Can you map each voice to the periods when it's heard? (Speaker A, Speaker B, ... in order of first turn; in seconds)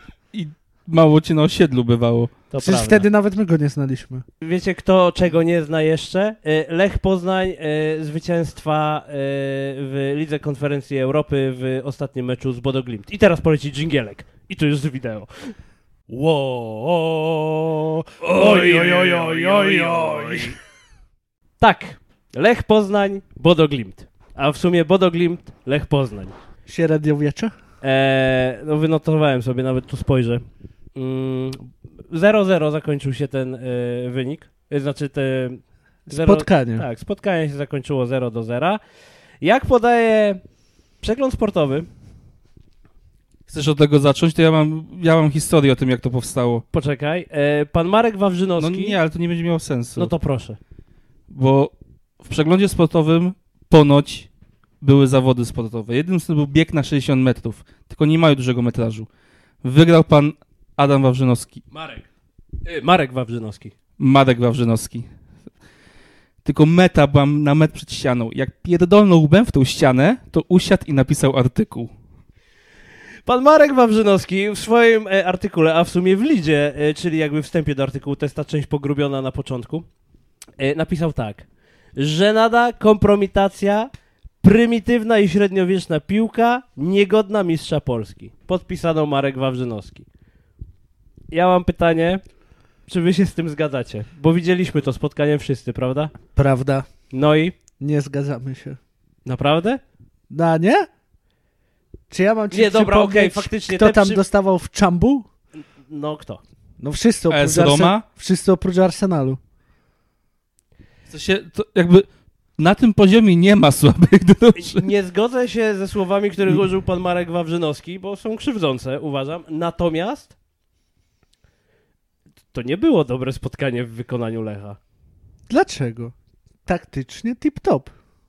Speaker A: 0.3-2.3, 43.5-46.6, 48.6-50.1, 51.3-54.3, 54.8-59.1, 59.6-61.6, 64.0-65.0, 66.4-71.9, 107.3-108.0, 111.1-112.1, 112.6-114.9
Speaker B: 2.5-3.0, 4.4-15.5, 16.1-17.4, 18.2-20.6, 21.6-26.4, 27.8-30.4, 30.9-38.8, 39.4-40.4, 41.0-41.9, 46.7-49.0, 50.0-50.6, 61.7-62.1, 62.6-63.7, 73.2-79.8, 80.6-81.5, 82.0-83.9, 84.4-90.0, 91.3-92.2, 92.9-96.1, 97.1-97.5, 99.2-99.8, 102.5-104.2, 105.9-106.4, 114.6-120.3, 122.5-124.8
Speaker C: 2.6-4.2, 17.6-20.5, 26.7-27.5, 36.1-36.9, 96.3-96.9, 97.8-98.8, 100.3-100.9, 102.1-105.3, 106.8-109.4, 125.5-126.1, 126.7-127.9